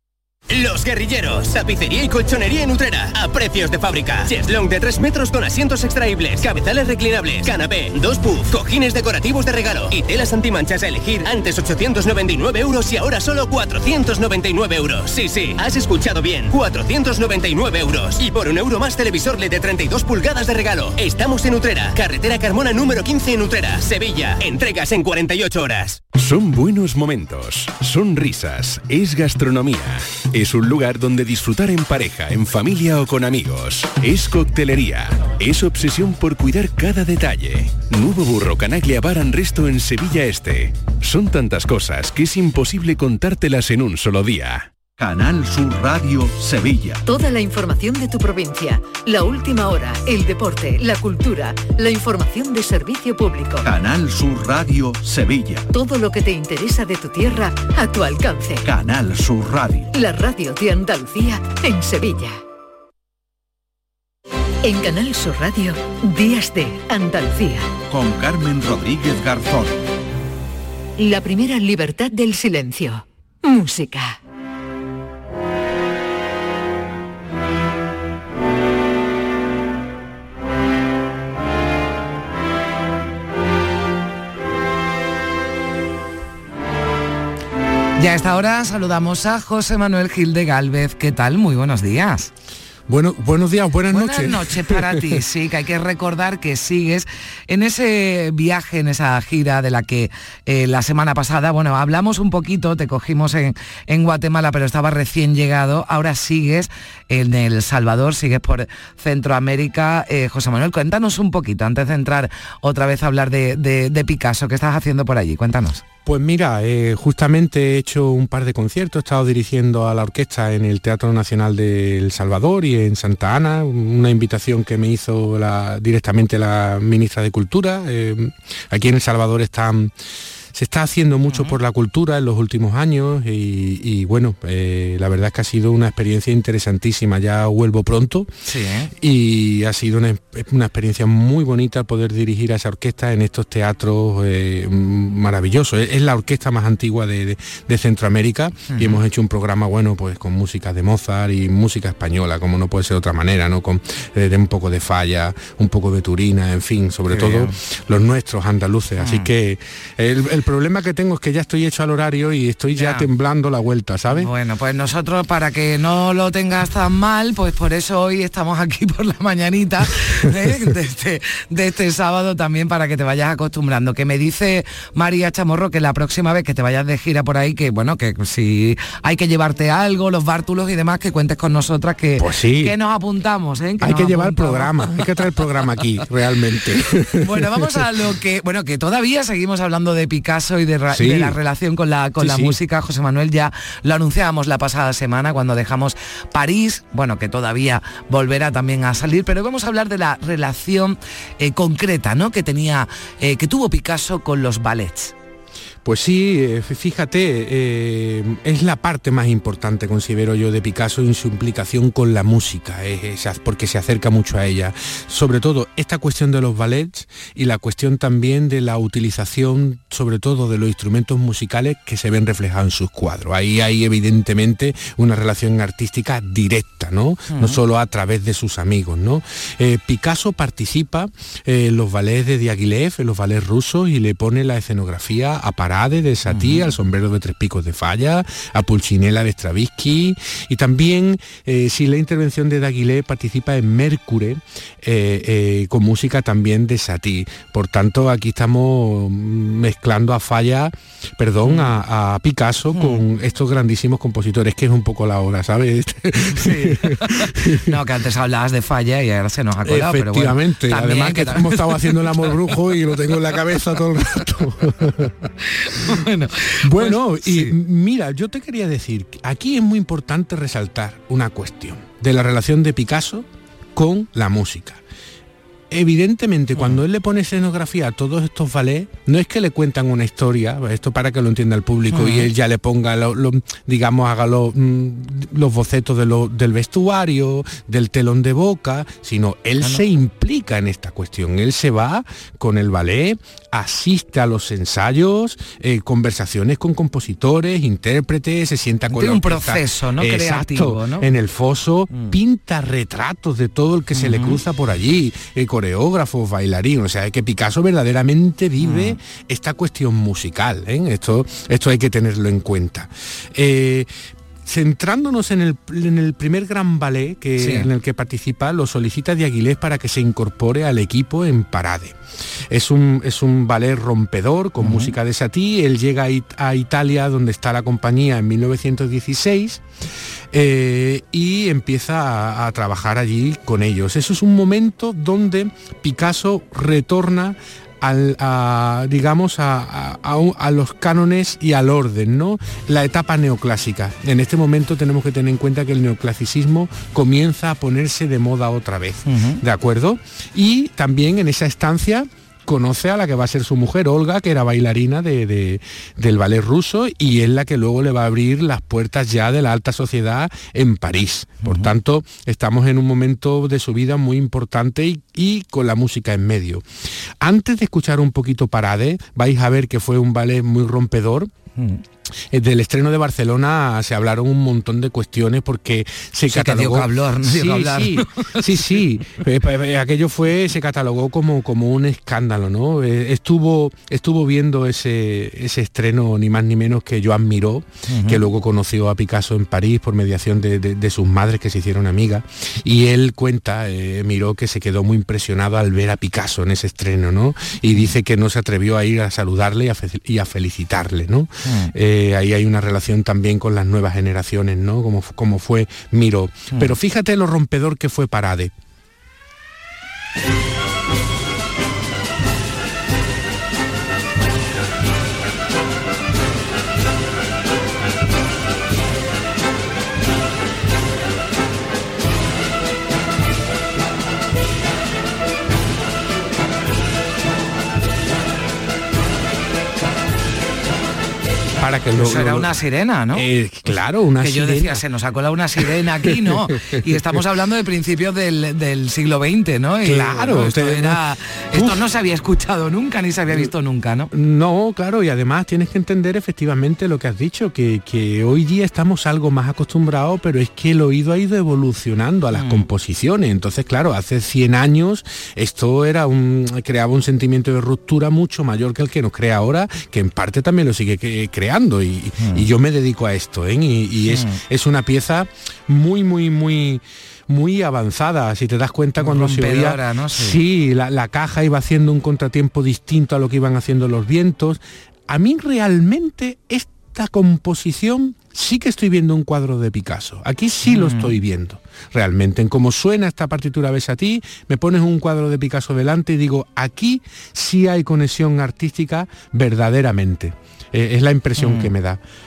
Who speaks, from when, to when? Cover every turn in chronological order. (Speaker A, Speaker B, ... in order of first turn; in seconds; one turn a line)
Speaker A: 0.5-26.0
Speaker B: 26.1-44.7
Speaker C: 45.0-47.0
Speaker D: 47.0-53.7
Speaker C: 53.6-55.7
Speaker D: 55.7-58.7
Speaker C: 58.6-59.9
Speaker D: 59.9-62.4
Speaker D: 64.6-67.7
Speaker C: 67.9-69.8
Speaker D: 71.0-74.2
Speaker E: 88.0-92.3
Speaker F: 92.9-95.2
Speaker E: 93.9-115.8
Speaker F: 116.0-129.9
Speaker F: 130.5-138.3
Speaker E: 131.3-131.6
Speaker E: 138.4-138.9
Speaker F: 139.0-164.3
Speaker E: 148.7-149.0
Speaker E: 157.1-157.6
Speaker E: 159.0-159.3
Speaker E: 162.7-163.1
Speaker E: 164.1-185.4
Speaker F: 182.2-182.7
Speaker F: 183.8-187.8
Speaker E: 187.2-205.1
Speaker F: 190.9-191.3
Speaker F: 192.2-192.5
Speaker F: 205.8-257.7
Speaker E: 227.3-227.6
Speaker E: 236.2-236.7
Speaker E: 251.4-251.8
Speaker E: 252.7-253.0
Speaker E: 256.3-262.6
Speaker F: 259.6-265.1
Speaker E: 265.4-267.6
Speaker F: 266.6-273.2
Speaker F: 273.8-274.8
Speaker F: 275.7-313.9
Speaker E: 276.5-276.8
Speaker E: 281.9-282.3
Speaker E: 298.9-301.1
Speaker E: 301.9-302.2
Speaker E: 303.9-304.4
Speaker E: 308.6-309.0
Speaker F: 314.4-321.9
Speaker E: 317.4-317.7
Speaker F: 322.5-329.6
Speaker E: 324.6-324.9
Speaker F: 330.3-366.6
Speaker E: 349.1-349.4
Speaker E: 361.4-361.7
Speaker F: 367.2-371.3
Speaker F: 372.3-408.5
Speaker E: 376.3-379.2
Speaker E: 387.9-388.3
Speaker E: 401.4-401.7
Speaker F: 431.6-432.5
Speaker E: 431.9-433.3
Speaker F: 433.1-434.8
Speaker E: 434.2-444.1
Speaker F: 439.8-441.0
Speaker F: 441.5-441.8
Speaker F: 444.1-492.0
Speaker E: 452.3-452.7
Speaker E: 462.2-462.5
Speaker E: 464.0-464.4
Speaker E: 469.0-470.4
Speaker E: 480.6-481.2
Speaker E: 491.4-491.7